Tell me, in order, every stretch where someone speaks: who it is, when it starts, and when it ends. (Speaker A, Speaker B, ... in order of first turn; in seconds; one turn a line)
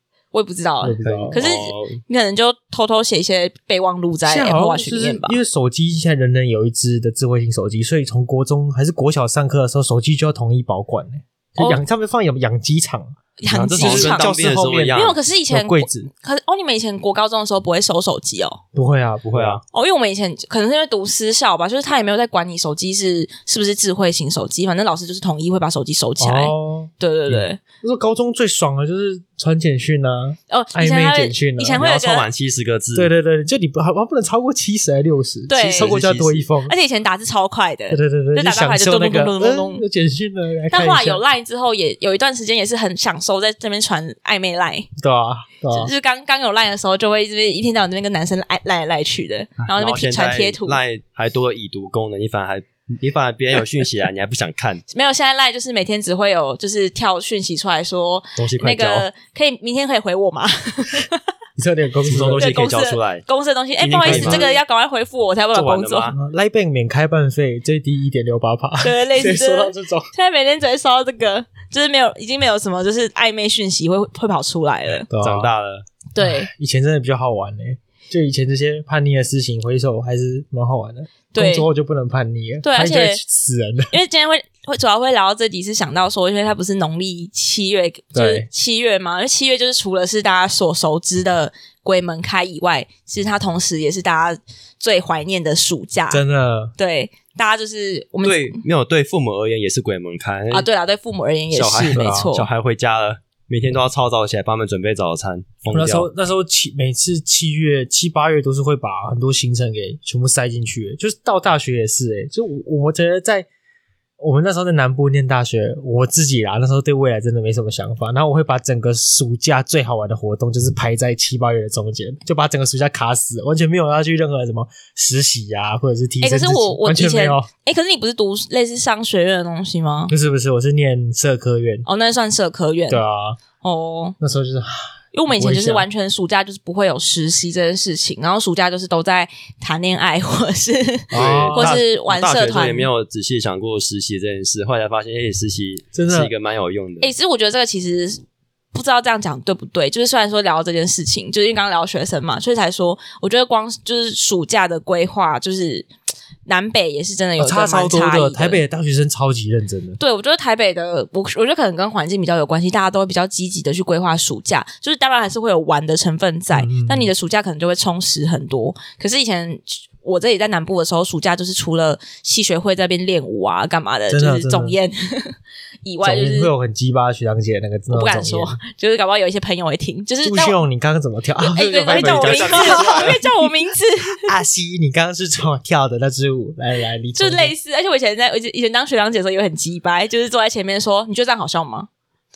Speaker A: 0.3-5.4
Speaker B: 0.8-1.4
Speaker C: 1.0-2.0
Speaker B: 4.2-13.1
Speaker A: 13.4-14.4
Speaker C: 13.5-15.2
Speaker B: 13.7-16.1
Speaker A: 14.9-18.6
Speaker B: 18.7-19.6
Speaker C: 19.3-19.6
Speaker A: 19.7-27.6
Speaker B: 26.2-31.8
Speaker A: 30.5-32.3
Speaker C: 31.8-33.1
Speaker B: 32.9-36.7
Speaker A: 35.5-36.0
Speaker C: 35.6-36.5
Speaker A: 36.6-39.8
Speaker B: 37.9-41.2
Speaker A: 40.7-44.9
Speaker B: 45.0-45.9
Speaker A: 45.7-50.8
Speaker C: 49.6-54.8
Speaker A: 54.9-61.2
Speaker C: 58.4-59.1
Speaker B: 61.6-62.5
Speaker C: 62.0-63.2
Speaker A: 62.4-66.1
Speaker C: 63.8-64.6
Speaker B: 64.0-64.6
Speaker C: 65.5-66.2
Speaker B: 66.1-70.1
Speaker A: 68.8-75.1
Speaker B: 75.1-75.5
Speaker C: 75.2-75.9
Speaker A: 76.1-76.5
Speaker B: 76.2-83.9
Speaker A: 81.3-81.7
Speaker A: 82.6-83.2
Speaker A: 83.9-96.2
Speaker B: 88.1-88.5
Speaker B: 96.1-96.7
Speaker A: 96.8-98.6
Speaker C: 98.2-100.7
Speaker A: 100.5-102.5
Speaker C: 101.5-106.1
Speaker B: 101.9-102.3
Speaker B: 105.7-113.5
Speaker B: 114.2-127.5
Speaker A: 126.2-130.1
Speaker B: 130.1-131.8
Speaker A: 131.8-133.0
Speaker B: 132.9-133.4
Speaker A: 133.6-134.2
Speaker B: 134.2-134.7
Speaker A: 135.1-142.9
Speaker B: 135.3-135.8
Speaker B: 141.1-141.8
Speaker C: 141.1-147.1
Speaker B: 145.9-146.3
Speaker A: 147.0-148.2
Speaker A: 148.7-155.9
Speaker A: 156.4-158.6
Speaker B: 157.4-160.0
Speaker A: 160.0-176.5
Speaker B: 166.5-167.1
Speaker B: 174.1-174.8
Speaker B: 176.0-178.6
Speaker A: 177.9-180.6
Speaker B: 180.2-183.2
Speaker A: 181.5-184.3
Speaker C: 181.6-183.2
Speaker B: 184.2-187.5
Speaker A: 187.2-191.9